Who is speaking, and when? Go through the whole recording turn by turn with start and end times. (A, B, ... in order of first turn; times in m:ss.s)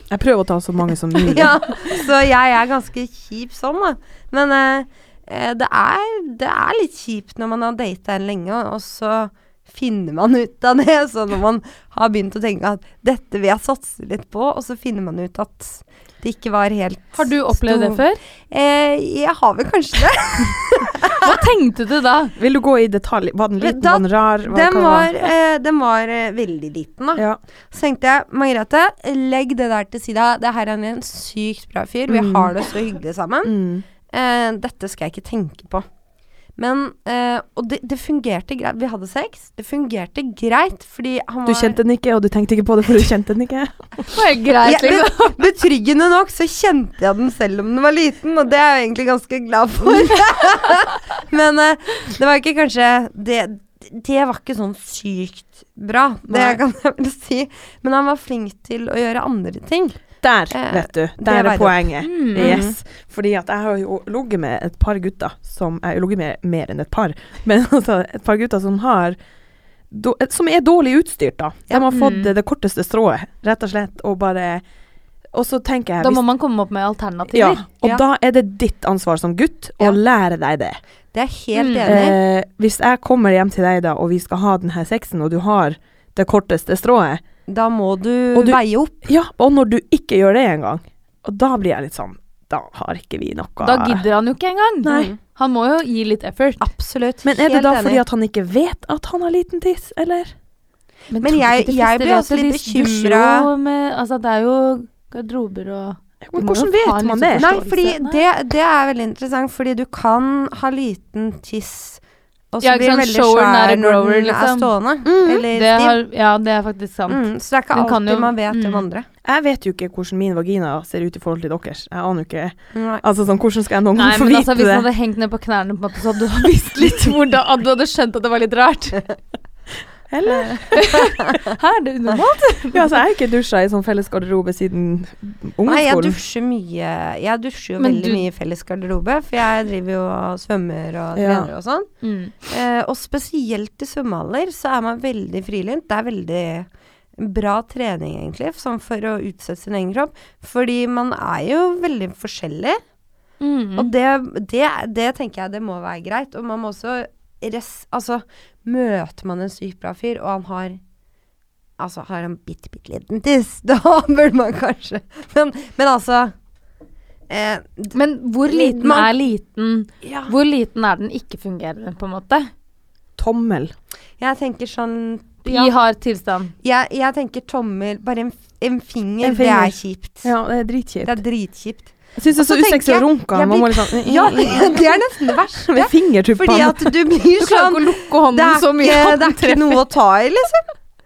0:00.1-0:02.0 A
0:01.2-0:21.3 B
0:17.2-0:18.2 C
0:21.1-0:22.3 C
0:22.4-0:25.1 A
0:23.6-0:33.6 B
0:32.1-0:32.5 A
0:33.4-0:33.8 A
0:34.1-0:35.8 B
0:36.6-0:41.8 B
0:41.5-0:43.8 A
0:44.1-0:45.4 C
0:44.6-1:00.0 B
0:56.3-0:56.6 C
1:00.2-1:09.2 A
1:00.5-1:02.8 B
1:02.0-1:02.6 C
1:09.9-1:14.6 A
1:11.9-1:12.3 C
1:15.3-1:16.2 A
1:16.0-1:17.6 C
1:17.3-1:20.8 A
1:21.1-1:22.2 B
1:21.6-1:22.0 C
1:21.8-1:27.2 A
1:27.5-1:29.0 B
1:28.3-1:34.0 A
1:33.6-1:36.7 C
1:34.8-1:35.1 A
1:34.9-1:35.2 B
1:36.6-1:38.0 B
1:37.2-1:40.3 A
1:41.1-1:48.2 C
1:41.2-1:43.5 B
1:46.2-1:47.5 A
1:47.4-1:52.0 B
1:52.5-1:56.0 B
1:52.6-1:54.7 C
1:55.0-1:55.5 A
1:55.5-1:58.9 C
1:57.1-1:59.1 B
1:59.2-2:04.9 A
2:02.7-2:03.0 B
2:04.0-2:09.1 C
2:10.1-2:10.8 A
2:10.3-2:12.9 C
2:12.7-2:16.2 A
2:15.7-2:21.9 B
2:17.8-2:18.2 C
2:21.2-2:21.5 A
2:22.0-2:22.4 C
2:22.5-2:32.8 B
2:33.4-2:33.9 C
2:33.8-2:40.8 B
2:41.8-2:46.3 B
2:47.3-2:48.0 B
2:47.9-2:52.5 C
2:48.5-2:49.1 B
2:50.0-2:50.3 B
2:53.2-2:53.7 A
2:54.2-2:55.7 B
2:55.5-2:56.5 C
2:56.6-3:00.3 B
2:59.2-3:01.2 A
3:01.0-3:10.6 B
3:02.2-3:05.0 A
3:05.7-3:06.9 A
3:07.4-3:09.8 C